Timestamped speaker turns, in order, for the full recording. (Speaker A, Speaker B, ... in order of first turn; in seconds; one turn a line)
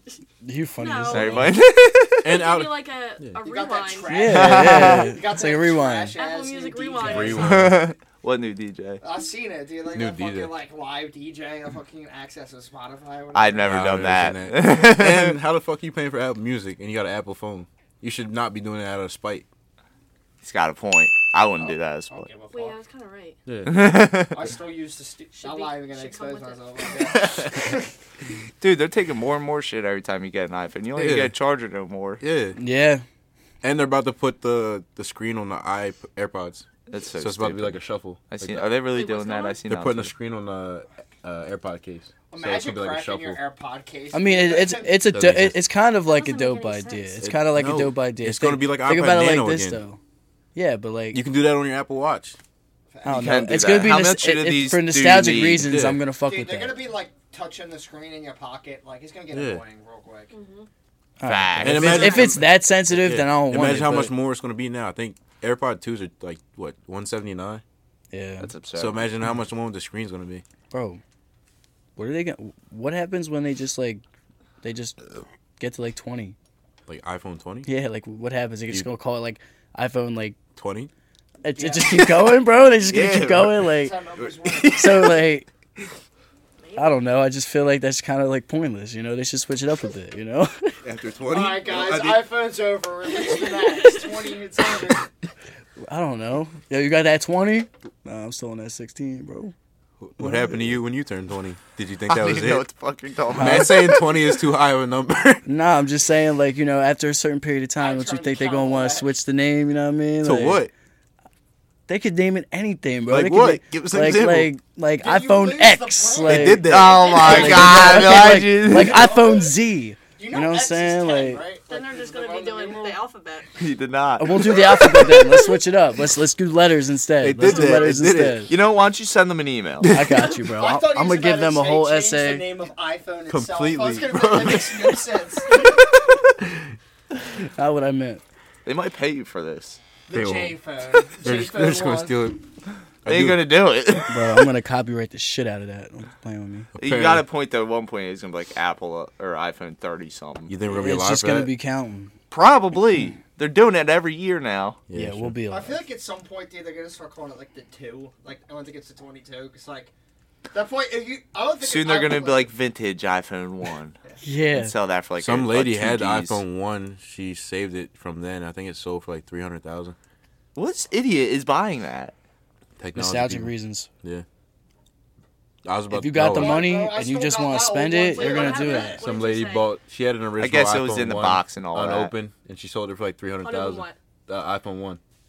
Speaker A: 0.4-1.5
Speaker B: 0.8-1.4
Speaker C: 1.1-2.3
Speaker D: 2.2-3.4
Speaker B: 2.3-4.2
Speaker E: 3.4-7.7
Speaker A: 4.1-6.2
Speaker C: 4.3-5.2
Speaker B: 6.2-7.5
Speaker D: 7.0-7.9
Speaker C: 7.3-9.0
Speaker E: 9.0-13.9
Speaker D: 9.9-10.5
Speaker C: 13.3-15.4
Speaker D: 13.7-19.5
Speaker C: 20.4-22.3
Speaker E: 21.6-22.8
Speaker B: 22.5-23.4
Speaker D: 23.5-24.2
Speaker C: 23.7-24.4
Speaker E: 24.3-27.9
Speaker B: 25.4-26.9
Speaker C: 28.6-32.2
Speaker D: 30.9-31.3
Speaker D: 32.2-32.6
Speaker A: 32.6-33.0
Speaker D: 33.6-38.7
Speaker C: 36.9-37.8
Speaker C: 38.3-40.1
Speaker B: 38.9-39.6
Speaker D: 39.7-43.4
Speaker E: 42.3-45.1
Speaker A: 44.1-50.0
Speaker D: 45.1-45.6
Speaker B: 46.0-47.2
Speaker D: 47.2-49.8
Speaker A: 50.5-51.2
Speaker D: 51.1-52.4
Speaker E: 52.9-53.4
Speaker A: 53.0-56.8
Speaker C: 53.1-55.7
Speaker D: 55.6-56.0
Speaker E: 56.2-60.3
Speaker D: 59.3-59.6
Speaker B: 60.3-60.7
Speaker A: 61.2-64.1
Speaker C: 61.2-62.2
Speaker D: 61.6-67.6
Speaker A: 68.1-68.5
Speaker C: 68.4-69.1
Speaker D: 68.8-70.4
Speaker A: 70.7-71.0
Speaker A: 72.0-74.0
Speaker A: 74.6-76.4
Speaker D: 76.9-77.7
Speaker A: 77.7-80.4
Speaker D: 80.6-80.9
Speaker A: 81.4-84.0
Speaker E: 81.5-82.3
Speaker D: 82.8-85.2
Speaker E: 83.7-84.8
Speaker A: 84.7-85.5
Speaker B: 86.6-87.1
Speaker A: 86.8-90.7
Speaker D: 90.8-92.3
Speaker E: 91.3-95.1
Speaker B: 93.2-94.1
Speaker A: 95.8-99.5
Speaker D: 100.0-102.7
Speaker A: 100.2-100.7
Speaker C: 102.1-104.4
Speaker A: 103.3-103.8
Speaker D: 103.3-105.4
Speaker A: 105.5-110.6
Speaker E: 107.8-109.1
Speaker D: 110.2-110.7
Speaker A: 111.9-121.4
Speaker D: 113.1-114.5
Speaker E: 115.0-119.5
Speaker D: 116.2-117.2
Speaker C: 116.6-119.2
Speaker E: 120.2-123.0
Speaker B: 121.7-123.5
Speaker C: 123.6-125.4
Speaker A: 124.2-128.5
Speaker D: 127.2-128.5
Speaker B: 127.5-127.9
Speaker C: 128.5-129.9
Speaker D: 129.8-130.3
Speaker A: 129.9-132.5
Speaker E: 130.6-135.8
Speaker D: 133.3-135.0
Speaker A: 137.6-138.2
Speaker C: 138.7-139.8
Speaker E: 140.1-142.2
Speaker D: 140.1-140.6
Speaker D: 141.2-142.4
Speaker D: 143.1-143.4
Speaker C: 143.1-144.4
Speaker A: 144.1-146.7
Speaker D: 146.8-147.2
Speaker C: 146.8-150.6
Speaker D: 150.5-151.5
Speaker A: 150.8-152.1
Speaker C: 152.3-154.8
Speaker D: 154.9-155.4
Speaker A: 154.9-155.8
Speaker E: 155.5-159.9
Speaker E: 160.5-162.5
Speaker C: 161.6-164.0
Speaker A: 164.2-164.8
Speaker C: 164.5-166.4
Speaker D: 165.2-170.0
Speaker C: 170.6-172.2
Speaker D: 172.8-174.2
Speaker A: 172.9-173.9
Speaker D: 175.6-176.7
Speaker A: 175.9-179.0
Speaker E: 176.3-179.1
Speaker B: 178.1-179.8
Speaker D: 179.0-185.0
Speaker C: 180.4-182.1
Speaker B: 183.4-184.0